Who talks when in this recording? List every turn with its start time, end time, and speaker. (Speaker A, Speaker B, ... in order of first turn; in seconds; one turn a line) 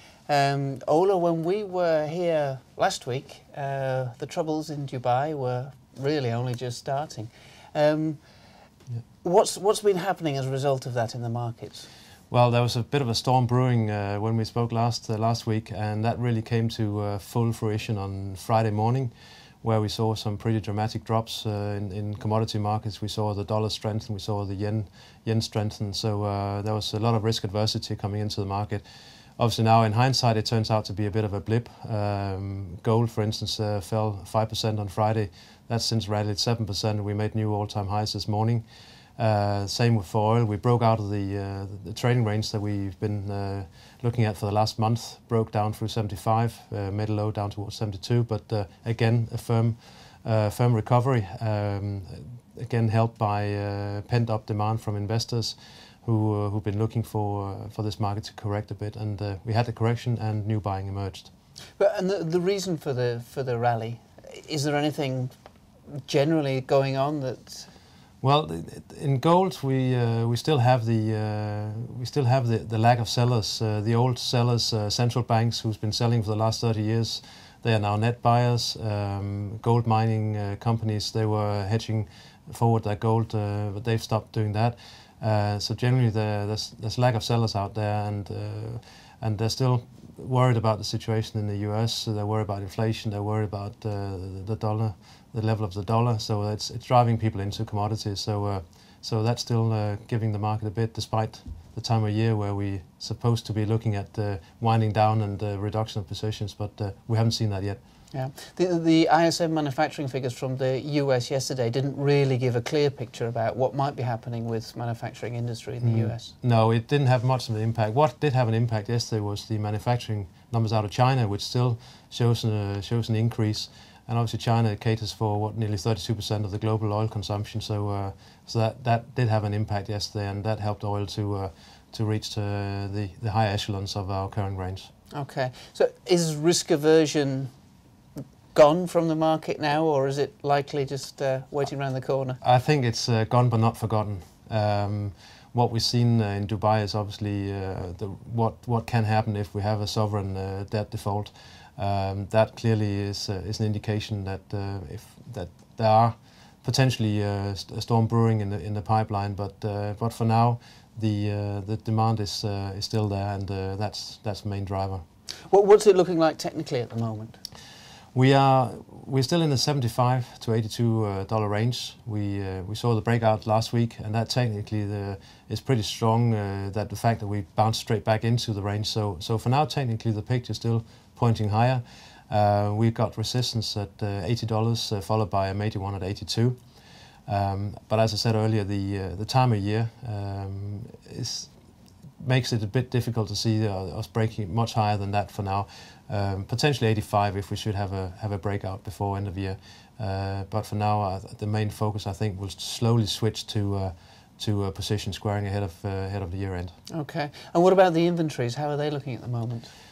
Speaker A: 0.3-8.2
Speaker A: 9.2-11.9
Speaker B: 12.3-28.9
Speaker B: 29.4-61.3
Speaker A: 61.8-65.3
Speaker A: 66.0-67.7
Speaker B: 68.2-107.8
Speaker A: 108.1-116.3
Speaker B: 115.8-134.9
Speaker A: 135.1-137.5
Speaker A: 138.2-142.4
Speaker B: 142.4-165.0
Speaker A: 165.5-167.4
Speaker B: 168.1-186.7
Speaker B: 187.3-191.6
Speaker B: 192.2-206.8
Speaker A: 206.9-209.7